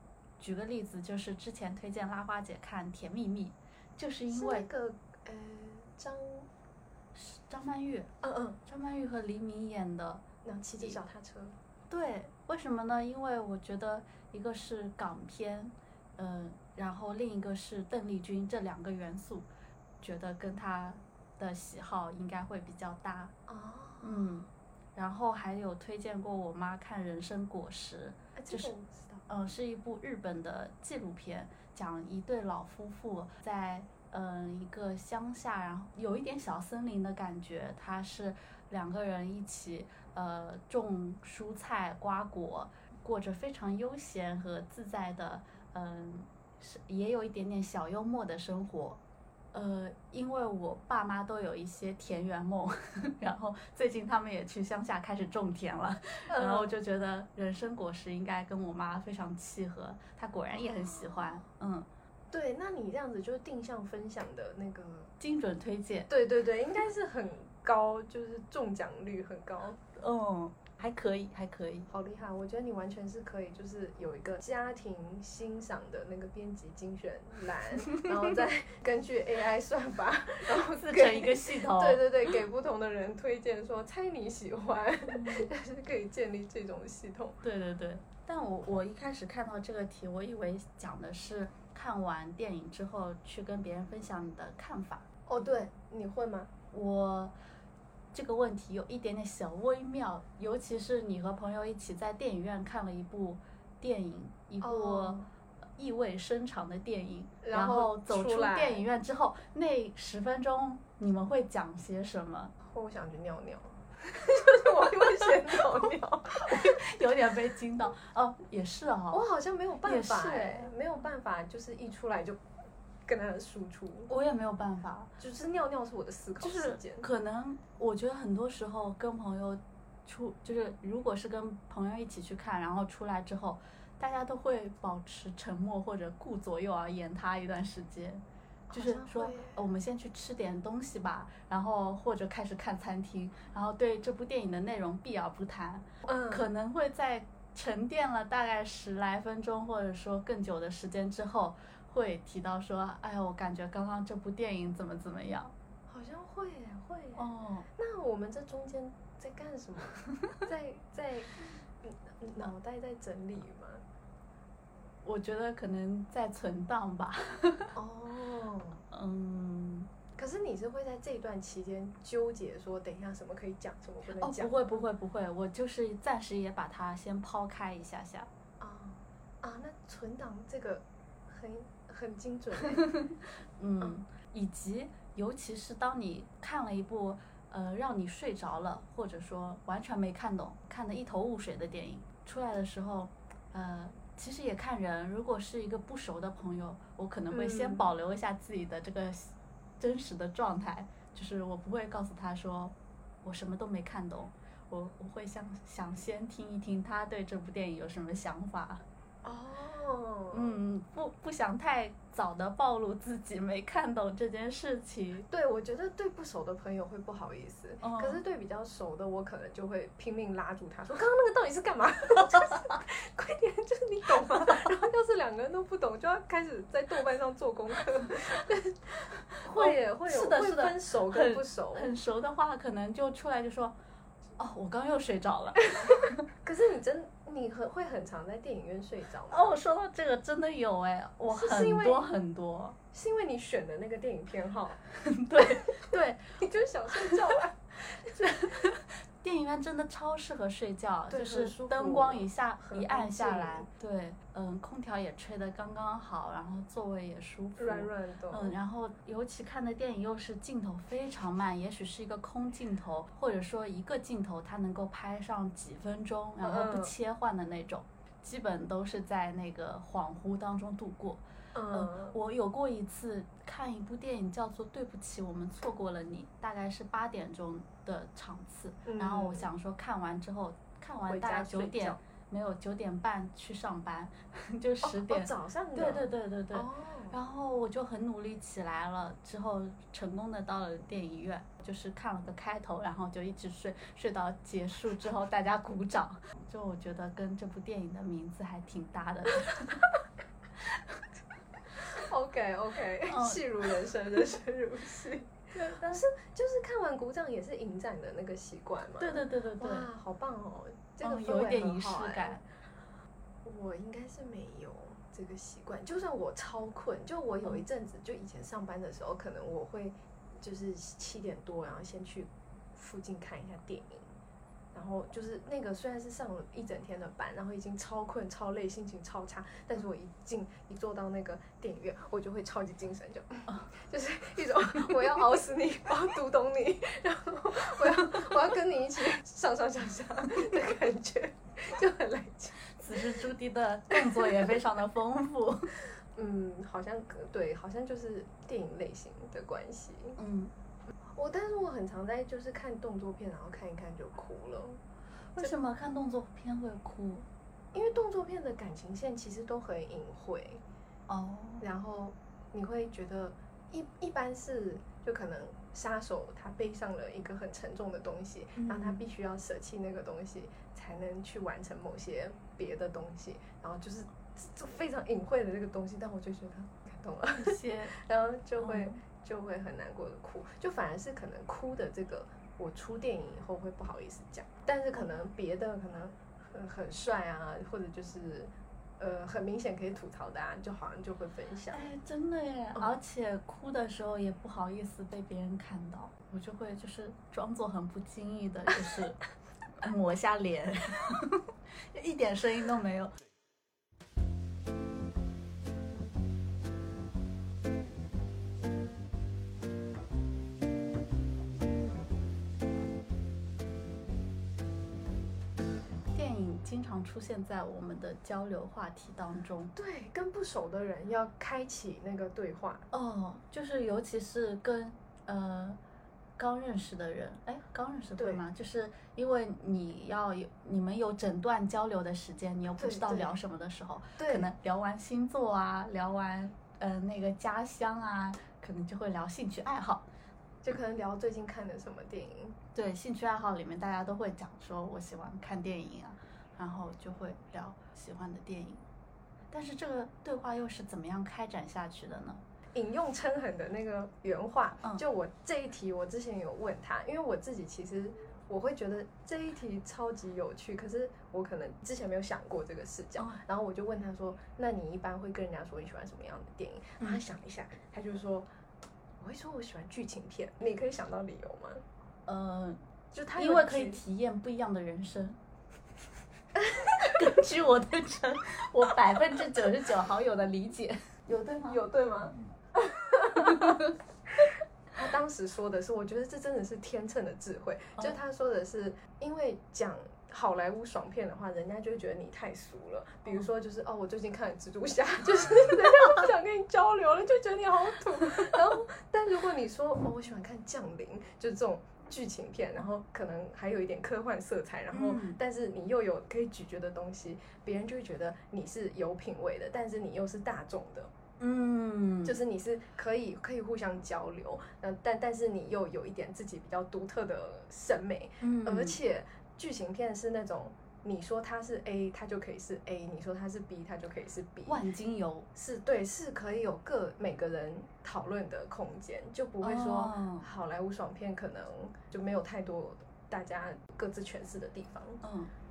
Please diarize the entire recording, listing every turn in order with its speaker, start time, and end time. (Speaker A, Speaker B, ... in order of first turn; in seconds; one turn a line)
Speaker A: 0.4-4.7
Speaker B: 4.3-6.5
Speaker A: 7.1-8.1
Speaker B: 8.2-8.6
Speaker A: 8.7-10.2
Speaker B: 10.4-11.6
Speaker A: 11.9-19.5
Speaker A: 20.0-23.3
Speaker B: 23.5-24.3
Speaker A: 24.0-28.7
Speaker B: 28.4-29.2
Speaker A: 29.3-49.0
Speaker A: 49.5-61.9
Speaker B: 56.3-56.7
Speaker B: 60.5-61.4
Speaker B: 62.3-65.1
Speaker A: 65.2-66.1
Speaker B: 66.1-69.8
Speaker A: 70.0-71.9
Speaker B: 71.9-87.4
Speaker A: 80.6-82.0
Speaker A: 85.1-85.5
Speaker A: 87.4-95.1
Speaker B: 95.3-96.5
Speaker A: 96.7-97.3
Speaker A: 98.1-105.2
Speaker B: 104.6-105.3
Speaker A: 105.8-112.5
Speaker B: 107.4-108.8
Speaker B: 112.6-116.8
Speaker A: 116.5-119.2
Speaker B: 119.1-122.4
Speaker A: 119.8-120.7
Speaker B: 123.1-124.1
Speaker A: 124.1-125.1
Speaker B: 125.2-127.1
Speaker A: 126.4-155.5
Speaker B: 138.7-139.6
Speaker B: 146.1-146.5
Speaker B: 155.9-163.8
Speaker A: 157.2-157.7
Speaker A: 165.0-167.7
Speaker B: 167.8-168.8
Speaker A: 168.9-169.9
Speaker B: 170.2-174.8
Speaker A: 174.2-178.3
Speaker B: 178.6-182.9
Speaker A: 182.7-208.8
Speaker B: 197.3-197.9
Speaker B: 209.2-210.6
Speaker A: 210.3-215.3
Speaker B: 215.3-231.9
Speaker A: 217.8-218.2
Speaker A: 229.4-233.8
Speaker A: 234.4-236.2
Speaker B: 236.4-239.5
Speaker A: 239.3-242.8
Speaker B: 241.3-242.1
Speaker B: 242.9-244.8
Speaker A: 245.0-246.4
Speaker B: 246.3-248.6
Speaker A: 248.2-299.9
Speaker B: 251.1-253.7
Speaker B: 257.6-258.6
Speaker B: 266.4-266.9
Speaker B: 271.5-272.1
Speaker B: 278.9-279.5
Speaker B: 281.1-282.0
Speaker B: 284.8-287.2
Speaker A: 300.7-301.0
Speaker B: 301.7-312.4
Speaker A: 303.1-303.4
Speaker A: 309.0-309.9
Speaker A: 311.0-312.4
Speaker B: 313.4-324.1
Speaker B: 324.7-342.9
Speaker A: 342.8-345.7
Speaker B: 343.9-344.2
Speaker B: 346.1-350.2
Speaker A: 350.2-350.5
Speaker B: 351.1-354.8
Speaker A: 355.4-357.3
Speaker B: 357.7-360.6
Speaker A: 361.1-361.7
Speaker B: 361.6-391.9
Speaker A: 368.6-369.1
Speaker A: 377.4-377.9
Speaker A: 378.6-379.0
Speaker A: 391.7-399.2
Speaker A: 399.8-403.1
Speaker A: 416.1-419.7
Speaker B: 419.8-422.9
Speaker A: 422.9-425.8
Speaker A: 426.4-440.1
Speaker B: 428.2-428.4
Speaker B: 432.8-433.4
Speaker B: 434.2-434.5
Speaker B: 440.6-442.6
Speaker A: 442.8-448.8
Speaker A: 449.5-452.4
Speaker B: 452.7-468.5
Speaker B: 469.2-471.8
Speaker A: 472.3-472.8
Speaker B: 473.1-474.0
Speaker A: 473.3-475.4
Speaker B: 476.6-477.2
Speaker A: 477.0-481.8
Speaker B: 481.7-483.8
Speaker A: 483.4-483.9
Speaker B: 484.9-511.1
Speaker A: 504.9-505.4
Speaker A: 511.4-512.4
Speaker B: 512.2-524.8
Speaker A: 518.4-519.0
Speaker A: 524.7-525.5
Speaker B: 525.5-535.2
Speaker A: 529.6-530.5
Speaker A: 535.2-535.5